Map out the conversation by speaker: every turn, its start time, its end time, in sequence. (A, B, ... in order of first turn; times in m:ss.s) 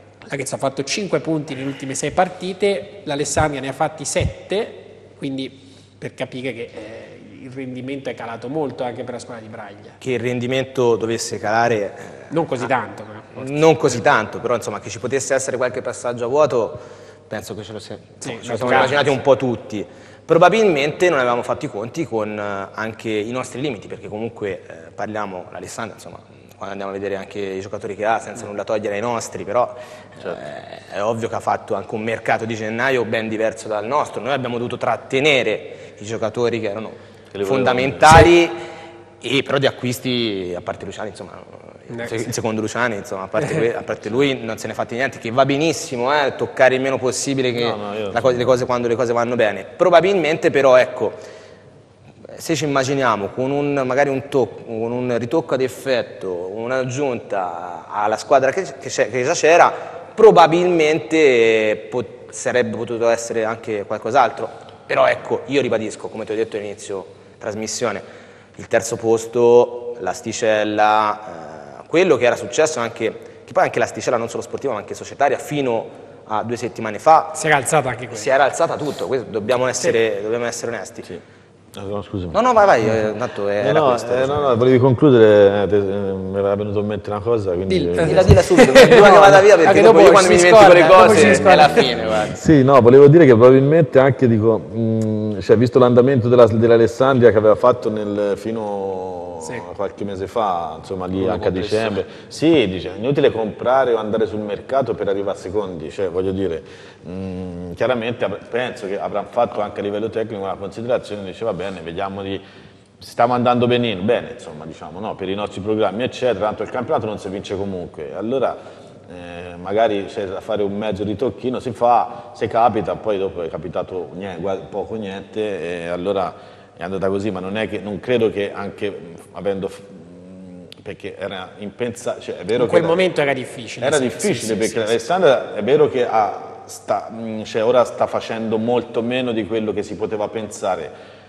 0:00.3-0:10.0 A
0:10.0-0:12.7 B
0:12.3-0:14.0 A
0:13.4-0:38.6 B
0:18.2-0:19.1 A
0:37.3-0:38.2 C
0:39.2-0:51.2 B
0:41.9-0:42.2 A
0:47.5-0:48.6 C
0:52.3-1:08.0 B
1:08.6-1:17.4 B
1:17.3-1:18.3 A
1:18.1-1:21.1 B
1:21.7-1:23.0 C
1:22.3-1:24.6 B
1:23.6-1:28.3 C
1:27.7-1:31.9 A
1:28.0-1:32.4 B
1:32.3-1:52.4 C
1:41.1-1:42.0 B
1:53.0-2:13.0 C
2:12.5-2:15.0 A
2:13.8-2:20.9 C